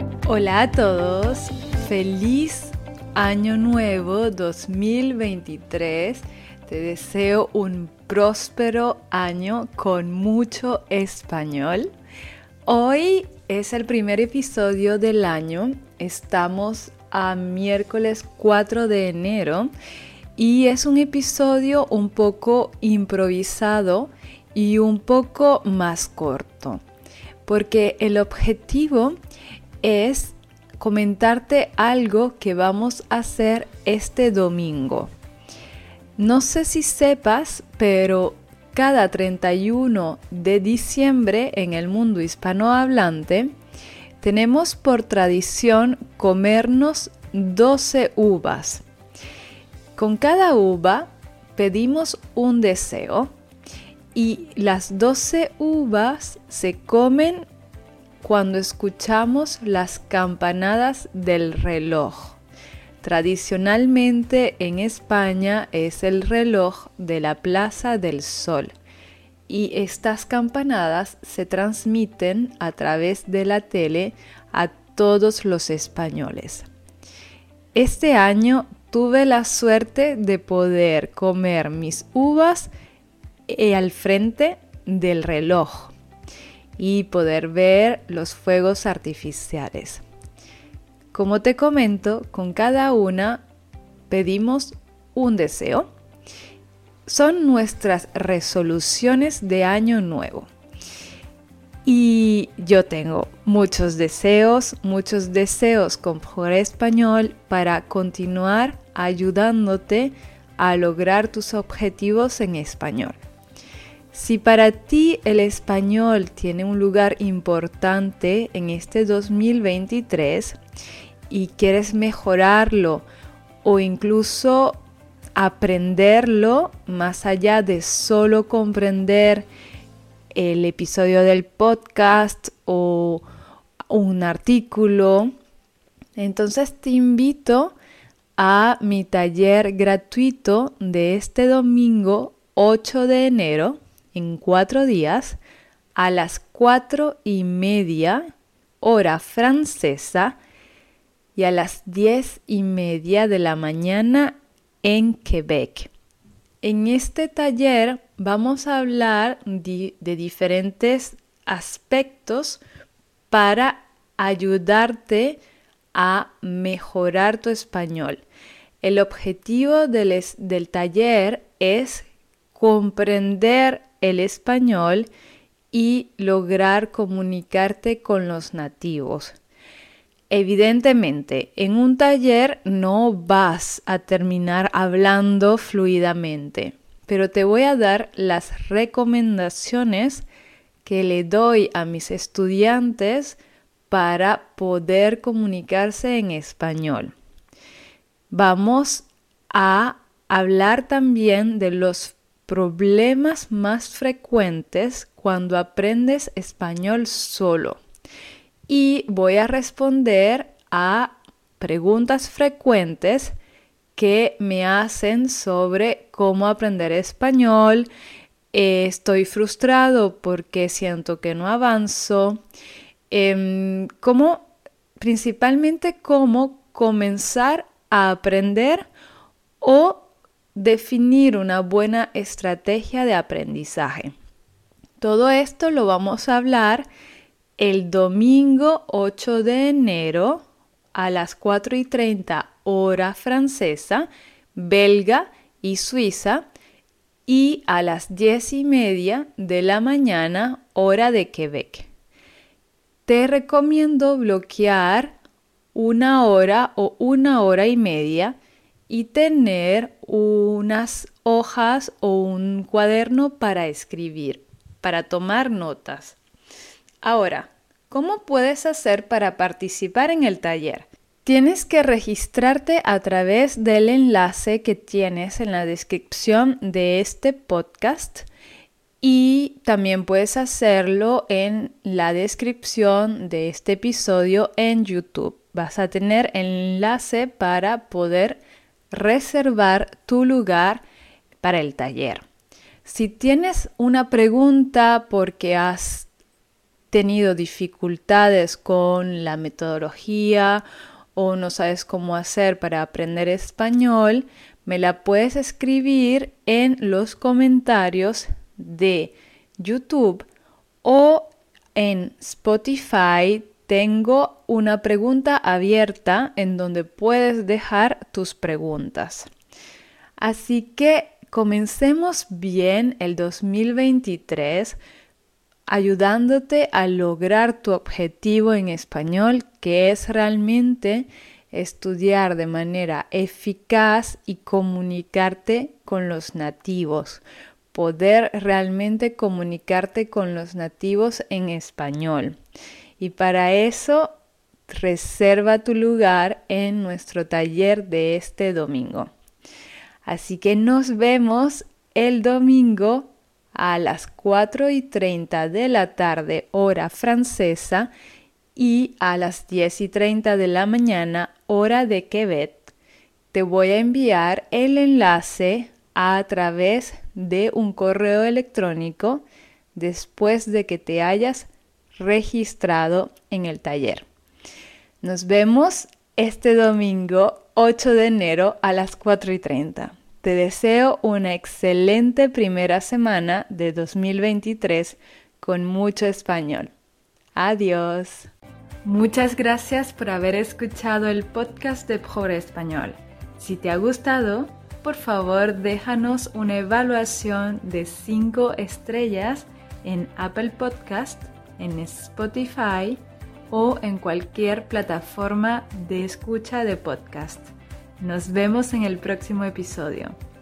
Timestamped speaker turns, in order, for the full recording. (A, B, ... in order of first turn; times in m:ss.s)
0:00.3-0:11.9 A
0:12.7-0:19.7 A
0:20.4-0:26.8 A
0:27.4-0:29.2 A
0:29.8-0:35.1 A
0:36.2-0:43.5 A
0:44.2-0:48.8 A
0:50.0-0:53.3 A
0:54.1-0:57.4 A
0:58.2-1:02.4 A
1:03.0-1:08.7 A
1:09.5-1:16.7 A
1:17.8-1:22.7 A
1:23.5-1:25.9 A
1:26.8-1:30.0 A
1:31.1-1:33.4 A
1:34.1-1:35.9 A
1:37.1-1:40.5 A
1:41.8-1:53.2 A
1:54.1-2:00.6 A
2:01.3-2:03.0 A
2:03.6-2:04.8 A
2:05.4-2:09.5 A
2:10.3-2:13.2 A
2:13.9-2:15.3 A
2:16.2-2:17.8 A
2:18.4-2:25.4 A
2:26.0-2:28.3 A
2:28.8-2:30.4 A
2:31.4-2:35.9 A
2:36.6-2:42.6 A
2:43.3-2:45.4 A
2:45.9-2:48.2 A
2:48.8-2:55.1 A
2:55.7-2:59.4 A
3:00.3-3:10.2 A
3:10.8-3:13.4 A
3:13.9-3:17.1 A
3:18.3-3:27.8 A
3:28.7-3:33.4 A
3:34.0-3:37.9 A
3:38.5-3:42.4 A
3:43.1-3:48.9 A
3:49.6-3:54.1 A
3:55.0-3:56.9 A
3:57.6-4:06.4 A
4:07.3-4:11.9 A
4:13.1-4:15.2 A
4:15.7-4:18.4 A
4:18.9-4:26.2 A
4:27.0-4:38.3 A
4:39.0-4:50.8 A
4:51.4-4:52.2 A
4:52.8-4:56.1 A
4:56.9-5:10.3 A
5:10.8-5:19.3 A
5:20.2-5:24.8 A
5:25.7-5:42.4 A
5:43.0-5:44.1 A
5:44.7-5:49.1 A
5:50.0-5:57.9 A
5:58.6-6:02.7 A
6:03.3-6:14.1 A
6:15.0-6:26.7 A
6:27.3-6:28.3 A
6:28.8-6:43.0 A
6:43.5-6:50.2 A